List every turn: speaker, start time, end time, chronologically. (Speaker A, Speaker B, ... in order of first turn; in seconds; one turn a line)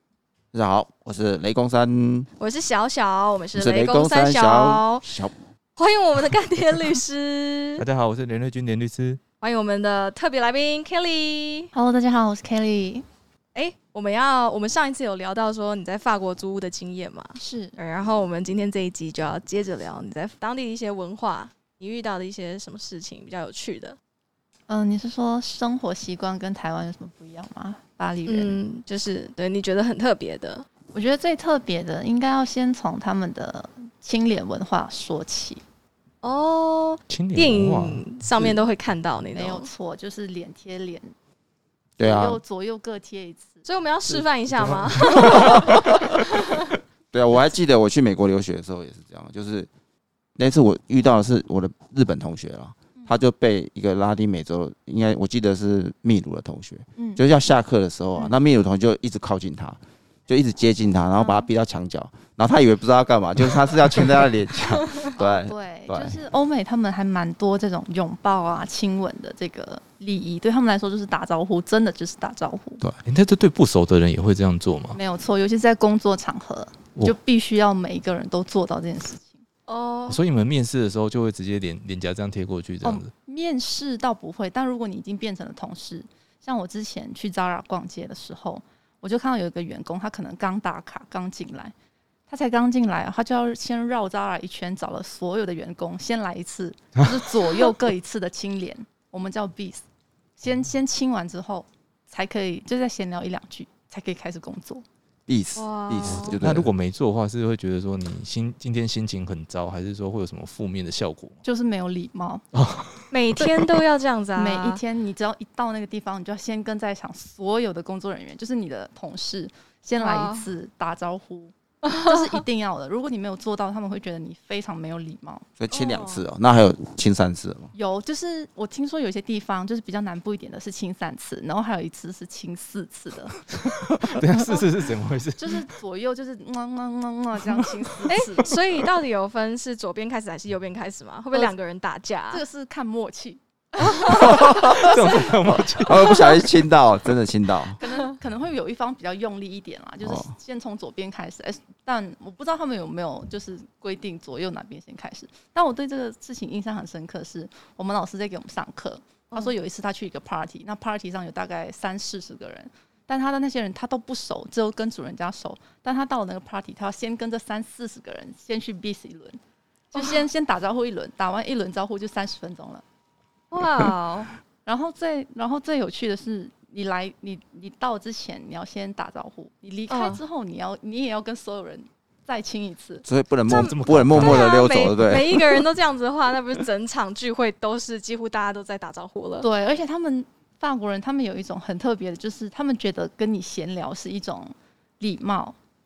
Speaker A: 0.5-2.3
Speaker B: 2.4-5.0
Speaker A: 3.5-5.3
Speaker B: 5.8-7.8
Speaker C: 7.8-9.2
Speaker B: 9.4-11.7
Speaker D: 11.7-13.1
Speaker B: 13.6-24.0
Speaker D: 17.4-17.8
Speaker D: 24.7-28.6
Speaker B: 28.3-30.7
Speaker D: 30.9-35.6
Speaker B: 36.2-39.7
Speaker C: 37.1-38.0
Speaker D: 39.3-41.1
Speaker A: 42.0-42.4
Speaker D: 42.0-43.7
Speaker B: 43.6-46.5
Speaker C: 44.1-45.7
Speaker A: 47.1-49.7
Speaker A: 50.4-66.2
Speaker D: 57.0-57.2
Speaker D: 61.2-61.5
Speaker D: 65.1-72.8
Speaker C: 73.0-75.0
Speaker D: 74.9-79.4
Speaker B: 79.7-80.2
Speaker C: 80.1-83.1
Speaker D: 82.8-91.7
Speaker D: 92.3-99.8
Speaker D: 100.4-104.8
Speaker A: 105.3-106.7
Speaker B: 105.6-106.4
Speaker C: 106.0-111.4
Speaker D: 111.4-112.4
Speaker C: 112.5-113.1
Speaker B: 113.1-114.8
Speaker D: 114.4-125.5
Speaker B: 120.0-120.5
Speaker B: 121.8-122.4
Speaker A: 125.6-127.7
Speaker B: 125.7-126.2
Speaker D: 127.7-133.4
Speaker C: 133.6-135.7
Speaker D: 134.3-134.7
Speaker D: 135.4-138.5
Speaker B: 138.1-142.4
Speaker D: 142.3-145.2
Speaker B: 143.8-145.2
Speaker A: 144.2-144.9
Speaker C: 144.8-146.2
Speaker A: 145.8-147.8
Speaker B: 146.0-146.4
Speaker D: 147.8-169.4
Speaker A: 150.0-150.3
Speaker B: 169.9-170.2
Speaker D: 169.9-172.8
Speaker B: 173.5-174.3
Speaker D: 174.7-183.1
Speaker B: 179.9-180.2
Speaker A: 183.1-185.3
Speaker C: 183.5-185.2
Speaker B: 183.5-189.5
Speaker D: 189.4-195.6